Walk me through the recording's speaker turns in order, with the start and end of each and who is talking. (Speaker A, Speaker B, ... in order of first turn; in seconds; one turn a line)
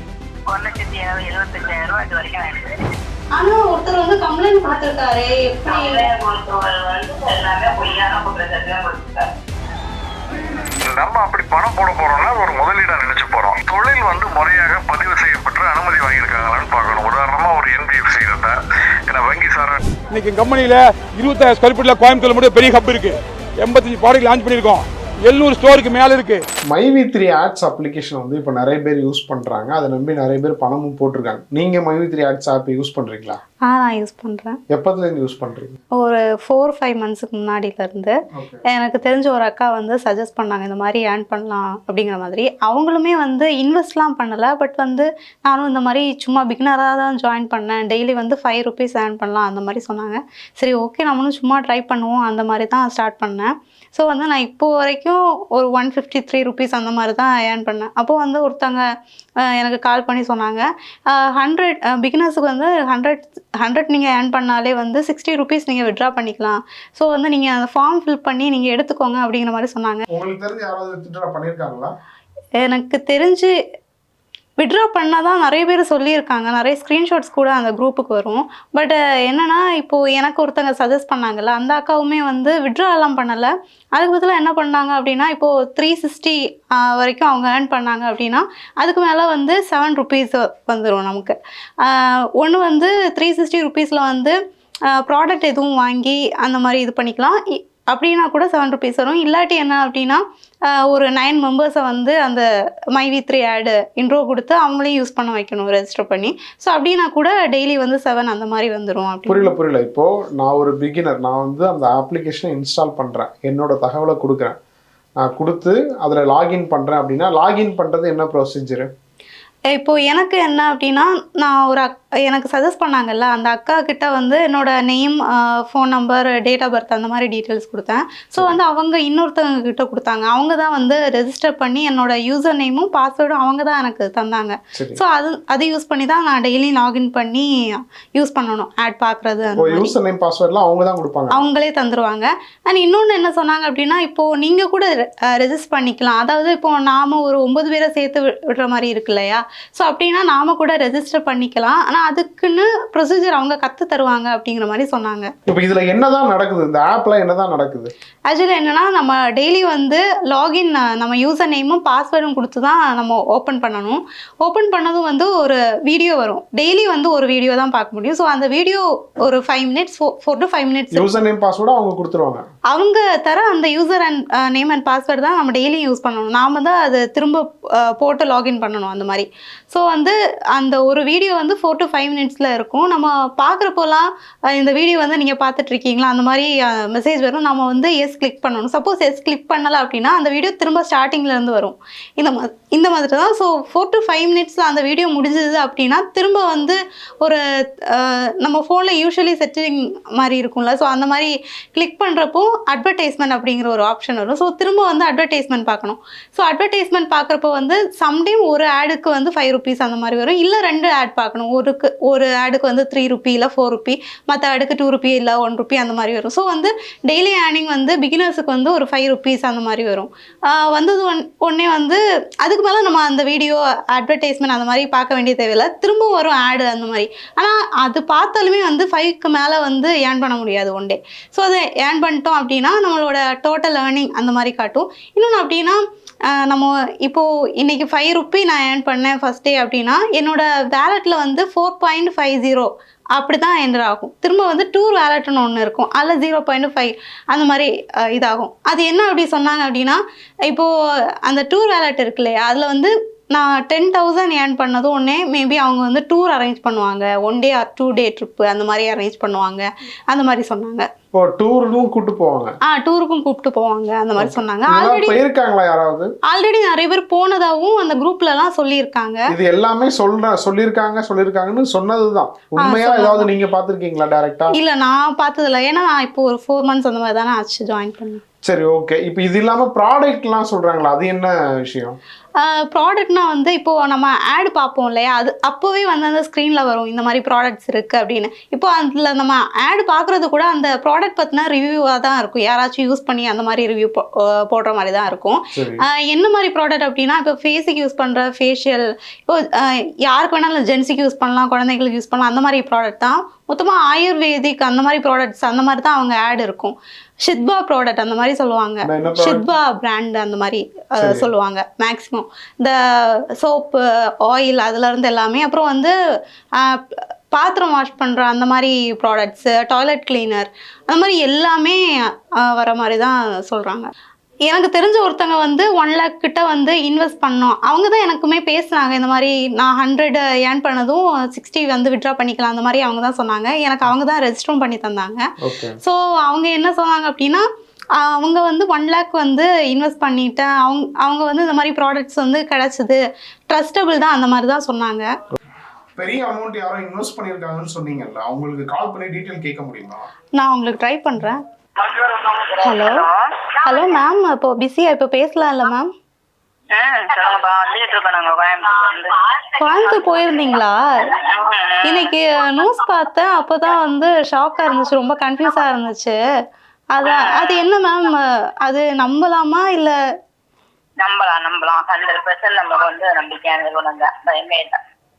Speaker A: 0.5-2.8
Speaker B: 3.3-6.1
Speaker A: 5.7-9.3
Speaker C: 10.8-18.6
Speaker C: 19.1-19.8
Speaker D: 20.1-26.4
Speaker E: 26.7-33.4
Speaker B: 33.6-34.6
Speaker E: 34.7-35.8
Speaker B: 36.0-38.2
Speaker E: 38.3-38.6
Speaker B: 38.7-58.9
Speaker B: 59.4-70.0
Speaker E: 70.1-71.9
Speaker B: 72.6-73.5
Speaker B: 74.6-94.3
Speaker B: 94.9-109.5
Speaker E: 109.3-114.6
Speaker E: 115.2-118.9
Speaker B: 119.7-139.9
Speaker E: 134.7-135.0
Speaker E: 139.6-141.4
Speaker B: 141.3-155.3
Speaker E: 155.5-157.9
Speaker B: 158.3-171.2
Speaker E: 170.9-172.4
Speaker B: 172.7-250.7
Speaker B: 251.2-260.9
Speaker E: 261.1-262.5
Speaker B: 262.7-265.2
Speaker E: 264.2-266.1
Speaker B: 266.3-269.2
Speaker E: 269.3-274.6
Speaker B: 272.6-273.3
Speaker B: 274.5-278.2
Speaker E: 278.4-282.0
Speaker B: 282.4-315.9
Speaker E: 295.5-295.8
Speaker E: 308.8-309.4
Speaker E: 311.0-311.3
Speaker B: 316.6-323.9
Speaker B: 324.5-335.2
Speaker E: 335.4-335.8
Speaker B: 335.8-337.4
Speaker B: 337.9-345.1
Speaker E: 346.0-350.1
Speaker B: 350.4-351.4
Speaker A: 351.8-353.9
Speaker B: 352.6-353.0
Speaker B: 353.7-355.9
Speaker A: 356.7-360.2
Speaker B: 359.6-360.8
Speaker A: 361.2-362.1
Speaker B: 361.9-366.2
Speaker B: 366.9-369.9
Speaker A: 367.0-367.6
Speaker A: 371.0-374.8